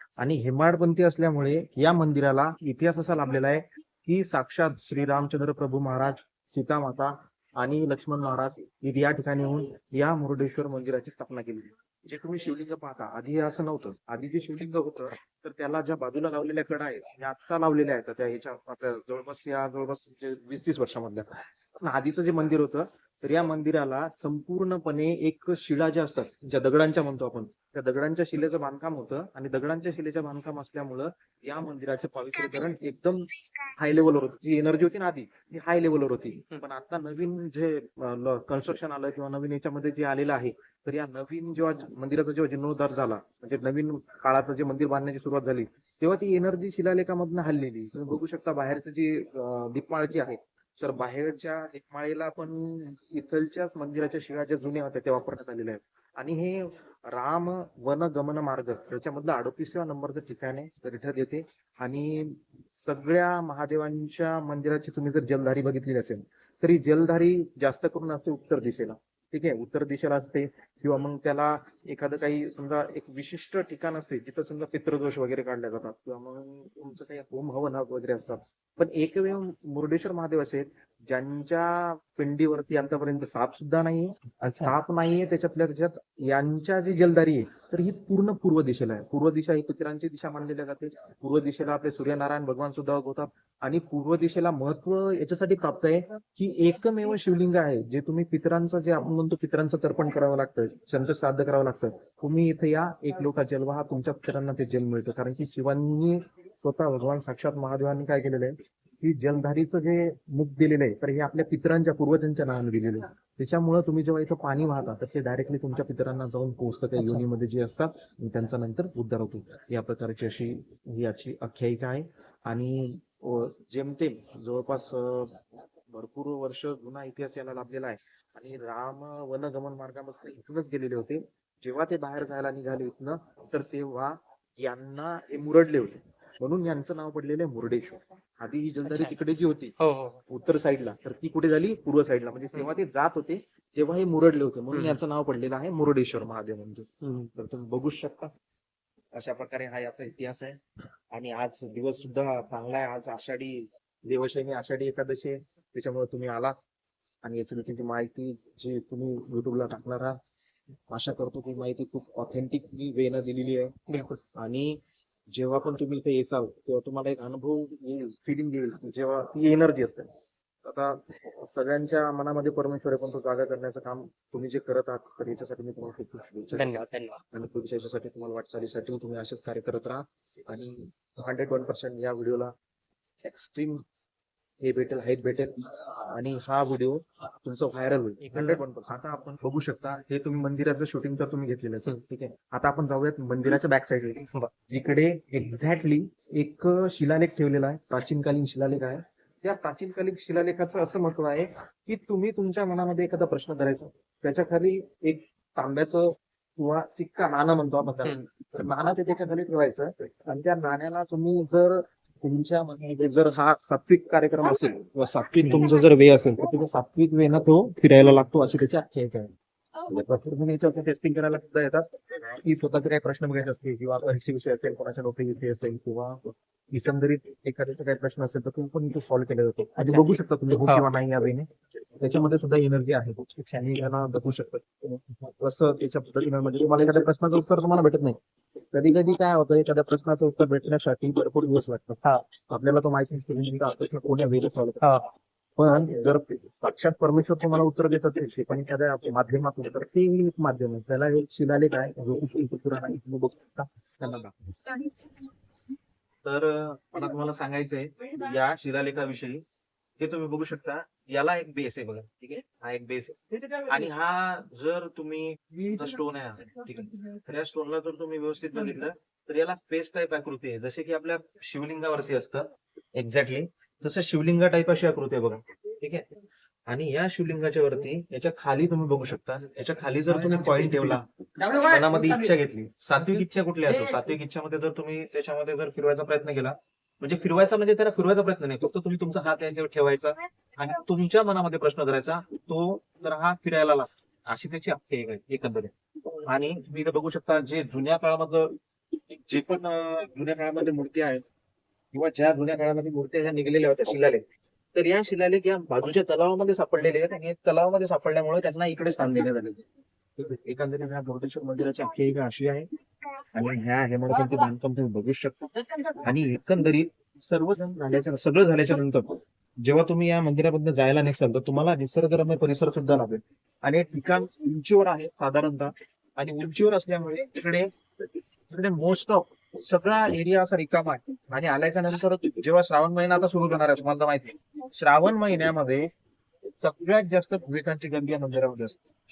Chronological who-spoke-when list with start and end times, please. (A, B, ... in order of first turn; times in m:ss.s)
0:00.2-2:05.4 A
1:57.0-1:57.2 B
2:05.9-2:19.7 A
2:18.8-2:19.1 B
2:19.8-2:20.2 B
2:20.3-2:28.3 A
2:24.7-2:25.0 B
2:29.2-2:30.6 A
2:31.1-2:36.5 A
2:37.2-2:40.2 A
2:40.9-2:43.7 A
2:43.9-2:44.2 B
2:44.4-2:44.7 A
2:45.3-2:50.1 A
2:50.6-2:56.7 A
2:56.5-2:57.2 B
2:57.3-3:02.5 A
3:03.2-3:03.8 A
3:04.6-3:39.3 A
3:08.2-3:08.6 B
3:39.8-3:51.4 A
3:49.8-3:50.9 B
3:52.0-3:58.2 A
3:58.7-4:04.8 A
4:05.6-4:14.8 A
4:16.2-4:19.4 A
4:20.0-4:36.1 A
4:36.7-4:55.7 A
4:56.2-4:58.6 A
4:59.2-5:01.2 A
5:01.9-5:04.2 A
5:04.7-5:09.6 A
5:10.2-5:12.7 A
5:13.3-5:27.7 A
5:28.5-5:35.9 A
5:36.6-5:38.8 A